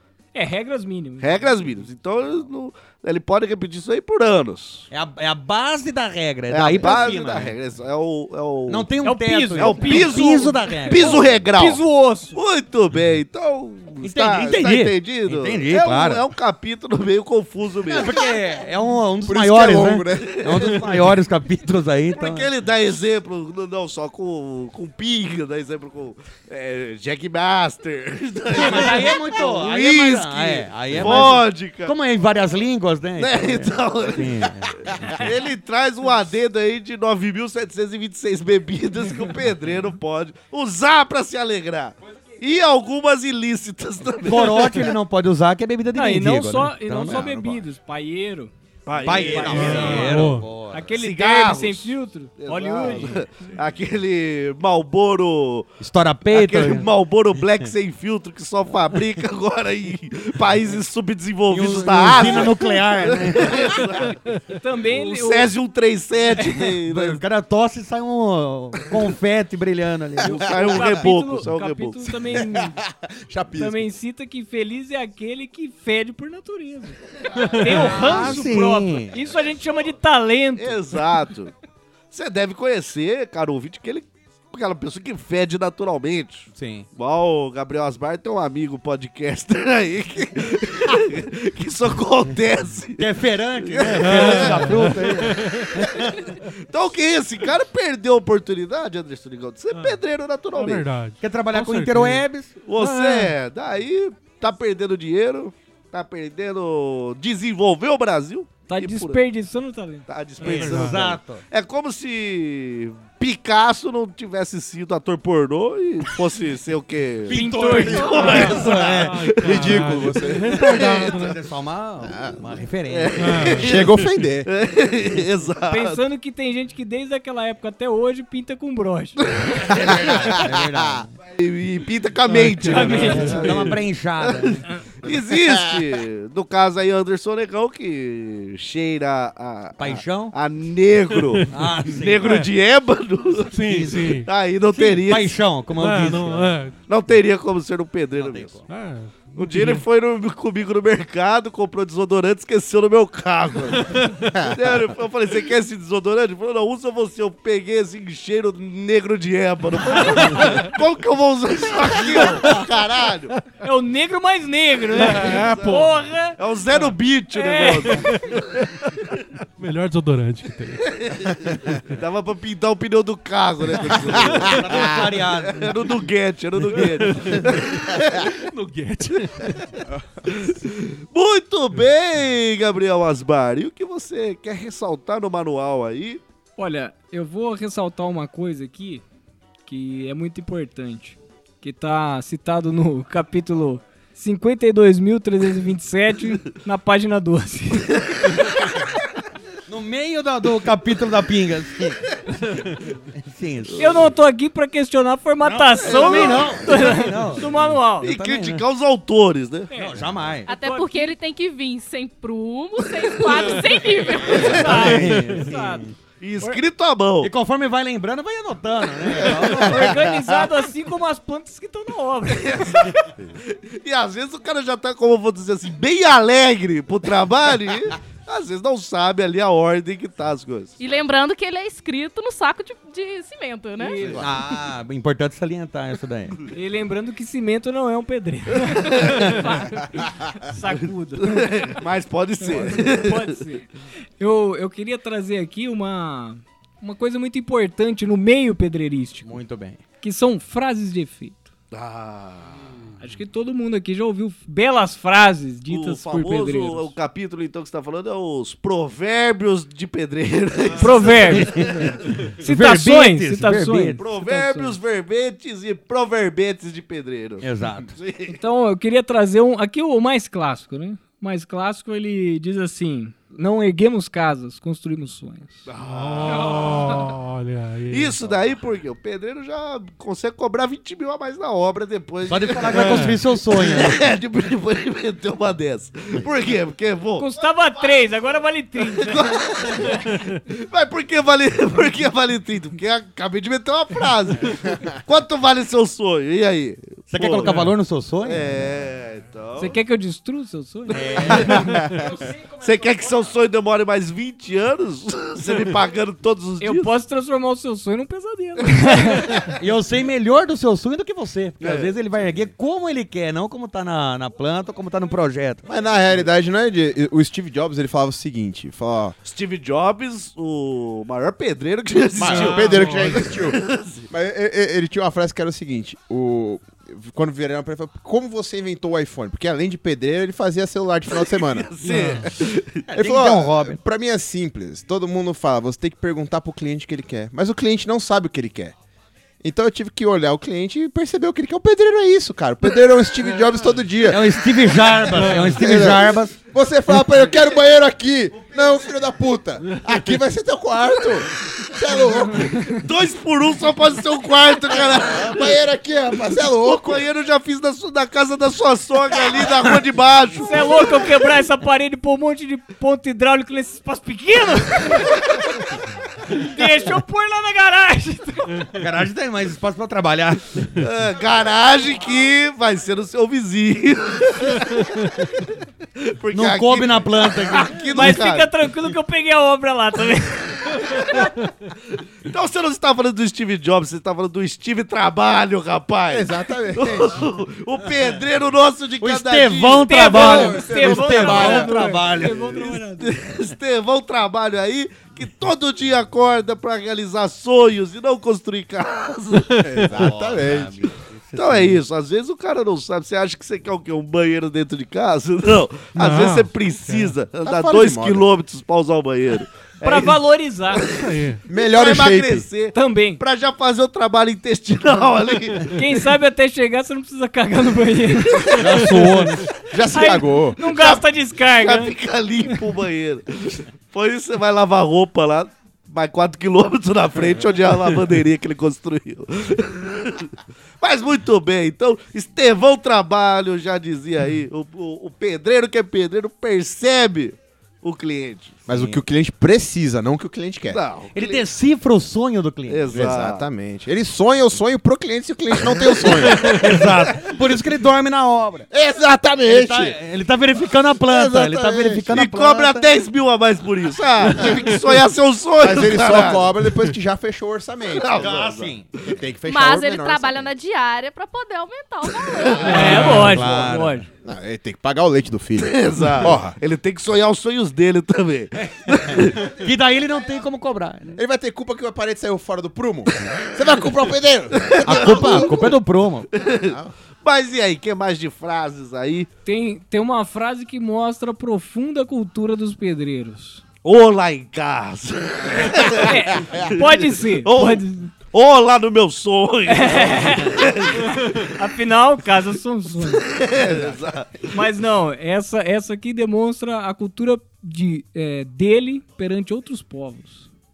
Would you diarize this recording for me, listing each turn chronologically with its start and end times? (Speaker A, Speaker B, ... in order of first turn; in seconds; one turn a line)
Speaker A: 0.3-1.6
Speaker B: 1.2-4.9
Speaker C: 4.9-7.5
Speaker B: 6.5-8.9
Speaker C: 8.7-11.2
Speaker A: 9.0-12.4
Speaker B: 9.6-18.2
Speaker C: 14.0-16.2
Speaker C: 17.9-22.5
Speaker D: 19.2-20.6
Speaker B: 20.5-20.8
Speaker B: 22.1-31.9
Speaker C: 28.5-35.1
Speaker B: 33.2-44.9
Speaker C: 44.2-47.6
Speaker A: 45.9-48.5
Speaker B: 48.9-50.2
Speaker C: 49.0-50.9
Speaker A: 49.0-53.2
Speaker E: 49.5-50.5
Speaker B: 50.9-55.7
Speaker C: 55.8-56.9
Speaker B: 56.3-64.2
Speaker C: 61.5-63.9
Speaker A: 64.5-65.5
Speaker B: 64.9-67.2
Speaker A: 66.4-66.7
Speaker C: 66.9-70.4
Speaker A: 70.2-72.8
Speaker B: 70.3-72.2
Speaker D: 72.3-73.9
Speaker A: 73.5-81.0
Speaker E: 77.4-77.9
Speaker C: 77.7-79.2
Speaker B: 80.5-81.5
Speaker B: 82.1-93.1
Speaker C: 86.5-86.9
Speaker C: 93.0-96.1
Speaker B: 93.6-95.0
Speaker E: 94.0-95.8
Speaker B: 95.8-100.9
Speaker E: 100.5-103.3
Speaker C: 101.2-102.5
Speaker B: 102.7-109.2
Speaker A: 108.7-110.0
Speaker B: 110.1-121.1
Speaker E: 110.4-111.1
Speaker C: 110.4-111.4
Speaker C: 117.3-119.3
Speaker A: 117.3-118.5
Speaker E: 118.1-121.3
Speaker D: 119.4-120.9
Speaker C: 120.5-123.6
Speaker D: 122.0-122.4
Speaker B: 122.9-126.0
Speaker E: 123.2-123.8
Speaker D: 123.6-124.5
Speaker A: 125.7-129.2
Speaker B: 129.3-130.4
Speaker C: 129.8-131.1
Speaker D: 129.9-131.0
Speaker B: 131.3-145.3
Speaker E: 132.3-133.5
Speaker A: 132.6-133.5
Speaker C: 132.8-134.6
Speaker D: 135.3-135.9
Speaker C: 139.8-140.3
Speaker C: 141.5-142.4
Speaker E: 142.2-142.5
Speaker E: 143.4-144.3
Speaker C: 143.7-144.2
Speaker C: 144.7-146.5
Speaker E: 145.7-146.8
Speaker B: 146.9-148.6
Speaker C: 148.2-148.6
Speaker E: 148.7-149.8
Speaker B: 149.3-154.0
Speaker E: 153.9-154.3
Speaker D: 154.3-154.8
Speaker B: 154.5-163.5
Speaker A: 163.6-166.4
Speaker B: 164.9-165.8
Speaker E: 165.0-166.0
Speaker B: 166.4-169.1
Speaker A: 167.3-167.9
Speaker E: 169.6-170.9
Speaker B: 170.8-178.3
Speaker C: 174.3-175.8
Speaker E: 176.7-179.8
Speaker B: 180.3-186.2
Speaker A: 186.6-189.0
Speaker A: 189.7-198.5
Speaker C: 199.7-202.1
Speaker C: 203.2-204.1
Speaker A: 203.8-208.1
Speaker C: 205.4-208.6
Speaker B: 205.8-206.7
Speaker B: 208.0-209.7
Speaker A: 209.7-211.1
Speaker C: 209.7-210.5
Speaker F: 210.5-214.6
Speaker C: 214.2-215.9
Speaker A: 214.3-215.9
Speaker B: 214.3-215.1
Speaker B: 216.2-217.3
Speaker C: 217.2-220.0
Speaker A: 219.5-222.8
Speaker B: 222.3-230.7
Speaker F: 230.8-234.0
Speaker A: 233.8-234.2
Speaker C: 234.1-236.4
Speaker A: 236.5-241.5
Speaker B: 241.2-243.4
Speaker A: 242.4-243.7
Speaker A: 244.2-249.3
Speaker C: 249.2-249.8
Speaker A: 250.0-251.5
Speaker B: 251.7-252.6
Speaker A: 253.0-256.9
Speaker B: 255.7-262.2
Speaker A: 260.8-264.8
Speaker C: 261.3-261.9
Speaker C: 262.4-264.0
Speaker B: 264.0-268.4
Speaker C: 267.4-267.9
Speaker A: 268.3-275.7
Speaker B: 275.7-277.1
Speaker E: 275.8-278.2
Speaker B: 277.9-287.4
Speaker C: 282.3-284.0
Speaker E: 282.7-283.2
Speaker A: 287.2-289.8
Speaker B: 288.8-297.6
Speaker C: 297.1-298.5
Speaker B: 298.2-299.8
Speaker A: 299.6-301.5
Speaker C: 300.9-302.0
Speaker B: 300.9-301.8
Speaker B: 302.6-306.9
Speaker A: 306.6-309.5
Speaker B: 308.6-309.5
Speaker C: 309.5-315.6
Speaker B: 311.6-311.9
Speaker D: 315.6-319.1
Speaker B: 319.2-324.1
Speaker D: 322.1-332.3
Speaker E: 322.3-323.3
Speaker B: 331.2-332.8
Speaker E: 331.8-332.3
Speaker C: 332.9-333.8
Speaker D: 332.9-338.7
Speaker D: 339.4-344.3
Speaker C: 344.1-346.3
Speaker E: 345.1-345.6
Speaker D: 345.5-352.7
Speaker A: 352.4-352.7
Speaker B: 352.8-355.6
Speaker D: 355.1-357.0
Speaker B: 356.3-361.1
Speaker A: 360.4-365.4
Speaker A: 366.2-368.6
Speaker C: 368.8-370.6
Speaker B: 370.8-375.4
Speaker B: 376.0-378.5
Speaker C: 376.3-378.1
Speaker A: 377.9-381.2
Speaker B: 380.9-381.3
Speaker B: 382.2-390.7
Speaker D: 386.1-387.2
Speaker C: 389.0-392.8
Speaker A: 389.8-393.2
Speaker D: 390.1-392.0
Speaker B: 392.2-399.5
Speaker E: 399.5-399.9
Speaker D: 399.6-400.8
Speaker C: 399.9-401.8
Speaker B: 401.3-415.8
Speaker E: 405.9-407.1
Speaker D: 407.4-408.3
Speaker A: 409.8-410.8
Speaker E: 410.9-411.4
Speaker D: 411.5-412.5
Speaker A: 412.7-413.2
Speaker A: 415.7-419.1
Speaker C: 418.6-419.5
Speaker D: 419.7-420.6
Speaker A: 419.8-421.9
Speaker B: 420.6-438.6
Speaker D: 438.7-440.8
Speaker C: 438.7-439.0
Speaker B: 440.7-441.4
Speaker C: 441.1-442.9
Speaker B: 442.7-443.4
Speaker D: 442.9-446.8
Speaker C: 446.4-448.7
Speaker D: 448.7-450.0
Speaker C: 449.4-452.9
Speaker D: 451.0-452.3
Speaker B: 452.1-456.5
Speaker D: 455.6-458.3
Speaker B: 457.9-458.8
Speaker C: 458.2-458.9
Speaker D: 459.0-460.5
Speaker F: 459.5-462.9
Speaker B: 462.4-463.6
Speaker A: 462.6-464.1
Speaker C: 462.7-464.1
Speaker D: 464.2-466.6
Speaker B: 465.6-469.5
Speaker C: 468.9-471.2
Speaker D: 471.1-475.5
Speaker B: 474.6-475.7
Speaker C: 474.8-476.3
Speaker B: 476.3-479.3
Speaker D: 476.6-476.9
Speaker A: 479.4-483.6
Speaker B: 483.8-491.5
Speaker A: 485.9-488.1
Speaker A: 489.7-490.7
Speaker A: 491.4-493.2
Speaker B: 493.0-494.5
Speaker D: 493.6-494.0
Speaker A: 494.5-500.5